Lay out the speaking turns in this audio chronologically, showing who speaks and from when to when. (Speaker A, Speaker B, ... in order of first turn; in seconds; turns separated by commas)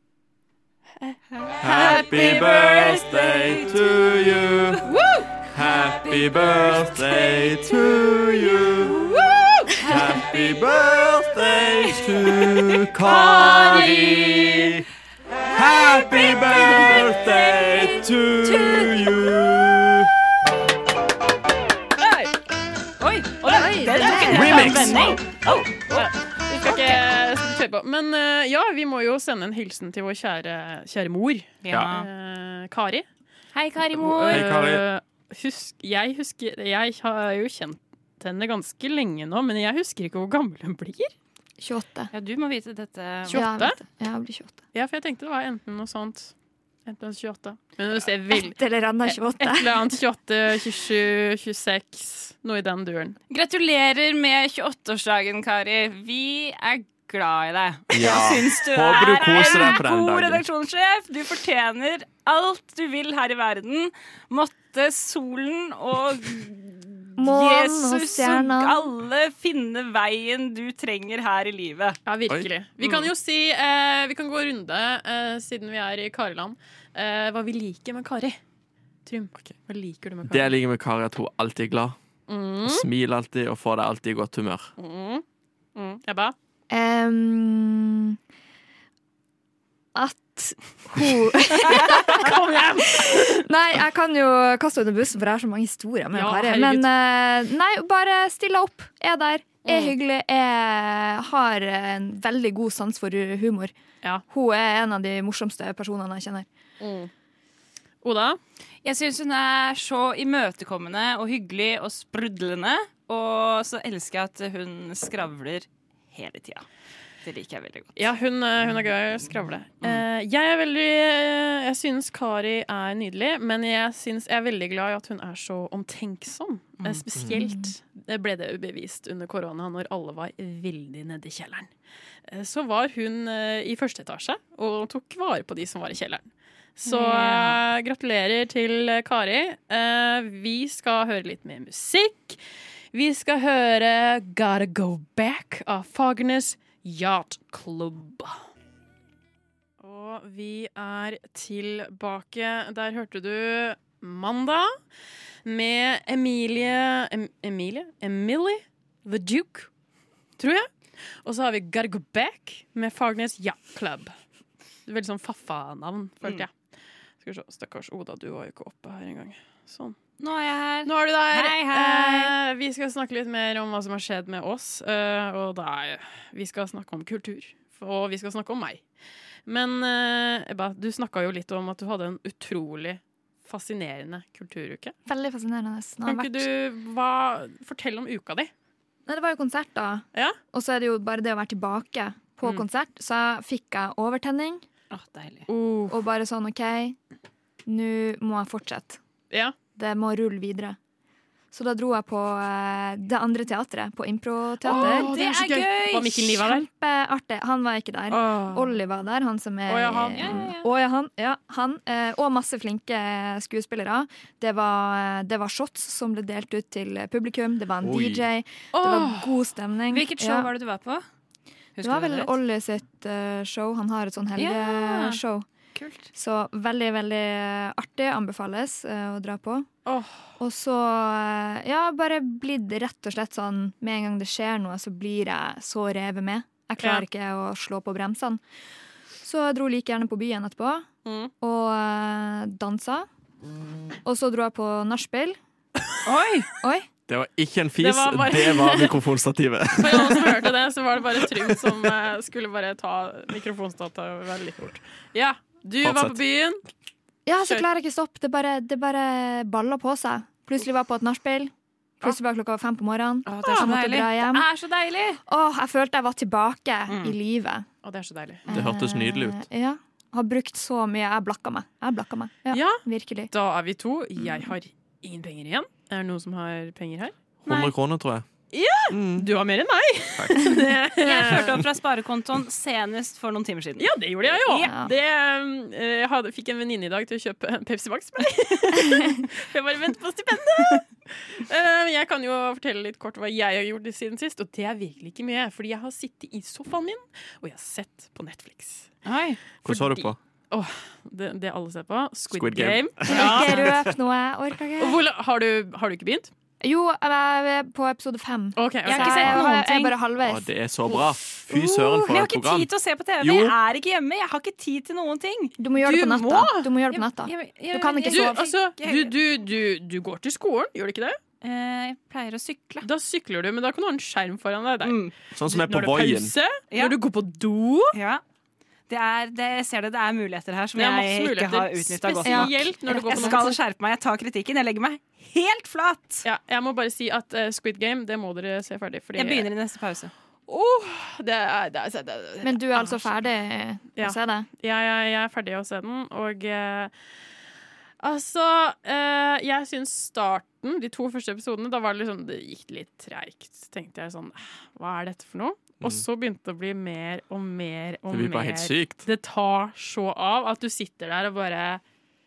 Speaker A: 1.0-2.4, Speaker B: 1.4-4.1, Speaker C: 1.6-4.8, Speaker A: 4.8-5.3, Speaker C: 5.5-9.0, Speaker B: 6.0-7.7, Speaker B: 8.8-10.7, Speaker C: 9.8-14.8, Speaker B: 11.8-12.6, Speaker A: 13.0-14.8, Speaker C: 15.5-20.1, Speaker B: 16.1-17.6, Speaker B: 18.4-18.9, Speaker B: 22.0-22.3, Speaker B: 23.0-26.1, Speaker A: 23.5-25.1, Speaker C: 24.1-25.2, Speaker A: 25.9-33.0, Speaker B: 26.7-27.0, Speaker B: 31.6-32.1, Speaker C: 31.7-31.9, Speaker B: 33.5-34.5, Speaker A: 33.9-41.1, Speaker C: 34.0-34.9, Speaker D: 41.6-42.1, Speaker B: 42.1-43.4, Speaker A: 43.3-43.8, Speaker D: 43.3-44.6, Speaker A: 44.7-46.3, Speaker A: 46.9-53.2, Speaker D: 48.3-49.9, Speaker B: 53.3-72.0, Speaker C: 57.9-60.4, Speaker D: 67.2-68.9, Speaker A: 72.1-78.4, Speaker B: 72.8-73.1, Speaker A: 79.1-80.5, Speaker C: 80.3-82.0, Speaker A: 82.3-82.9, Speaker C: 82.6-84.7, Speaker A: 84.8-85.2, Speaker A: 85.8-86.3, Speaker D: 86.7-88.2, Speaker D: 90.0-103.7, Speaker A: 91.6-93.5, Speaker A: 96.1-96.9, Speaker A: 99.7-100.0, Speaker D: 104.3-106.5, Speaker A: 106.8-107.1, Speaker A: 108.0-108.4, Speaker B: 108.8-116.7, Speaker B: 117.2-118.0, Speaker A: 118.0-131.7, Speaker D: 127.3-127.7, Speaker A: 132.3-136.3, Speaker A: 136.8-142.4, Speaker B: 136.9-137.6, Speaker D: 136.9-137.3, Speaker A: 142.9-148.4, Speaker A: 149.8-154.7, Speaker A: 155.4-159.7, Speaker A: 160.4-160.7, Speaker A: 161.2-164.1, Speaker A: 164.9-166.5, Speaker A: 167.2-170.0, Speaker B: 170.2-172.3, Speaker A: 170.8-178.8, Speaker A: 179.5-184.9, Speaker D: 185.1-186.5, Speaker A: 186.1-188.5, Speaker D: 189.1-194.6, Speaker B: 194.9-195.5, Speaker A: 195.5-196.0, Speaker D: 195.9-197.0, Speaker D: 197.7-199.0, Speaker D: 199.8-200.8, Speaker D: 201.5-205.1, Speaker A: 204.7-206.7, Speaker B: 204.7-206.3, Speaker D: 206.3-220.5, Speaker A: 208.1-208.7, Speaker A: 209.7-210.4, Speaker B: 210.2-210.7, Speaker C: 217.8-218.3, Speaker A: 218.7-219.4, Speaker B: 219.9-221.0, Speaker B: 221.8-222.3, Speaker D: 221.8-225.5, Speaker B: 224.4-225.2, Speaker B: 225.8-226.1, Speaker D: 226.1-229.7, Speaker A: 229.9-230.3, Speaker D: 230.4-238.4, Speaker D: 239.2-240.9, Speaker A: 241.1-241.3, Speaker D: 241.4-243.1, Speaker D: 244.1-245.4, Speaker B: 246.1-246.5, Speaker D: 246.6-246.9, Speaker C: 247.1-250.5, Speaker A: 247.8-249.0, Speaker A: 249.7-256.6, Speaker C: 255.8-256.2, Speaker D: 257.3-264.5, Speaker B: 263.3-265.2, Speaker D: 265.3-267.7, Speaker B: 266.9-267.1, Speaker A: 267.8-268.4, Speaker D: 268.5-273.3, Speaker C: 268.5-269.4, Speaker A: 272.5-277.7, Speaker C: 277.4-278.3, Speaker A: 278.5-281.6, Speaker C: 278.9-279.3, Speaker B: 281.0-284.7, Speaker A: 283.8-298.9, Speaker D: 284.6-284.9, Speaker B: 299.1-299.4, Speaker A: 299.6-303.7, Speaker C: 299.6-300.2, Speaker C: 302.3-303.2, Speaker D: 303.1-305.0, Speaker B: 303.1-303.5, Speaker A: 304.8-306.3, Speaker D: 306.6-310.5, Speaker A: 308.6-309.6, Speaker B: 308.9-309.9, Speaker C: 310.2-312.7, Speaker B: 311.5-315.5, Speaker C: 313.2-313.6, Speaker D: 315.6-318.5, Speaker A: 315.8-316.7, Speaker B: 316.9-319.1, Speaker A: 318.1-321.2, Speaker B: 321.4-322.9, Speaker A: 322.8-327.9, Speaker B: 324.8-325.1, Speaker C: 325.4-326.3, Speaker B: 326.7-327.0, Speaker B: 327.9-328.2, Speaker B: 328.9-336.3, Speaker A: 330.8-333.6, Speaker D: 332.2-333.5, Speaker A: 336.2-339.5, Speaker B: 339.2-340.1, Speaker A: 340.5-343.1, Speaker D: 342.4-344.5, Speaker A: 344.0-346.9, Speaker A: 348.0-361.8, Speaker C: 358.1-359.0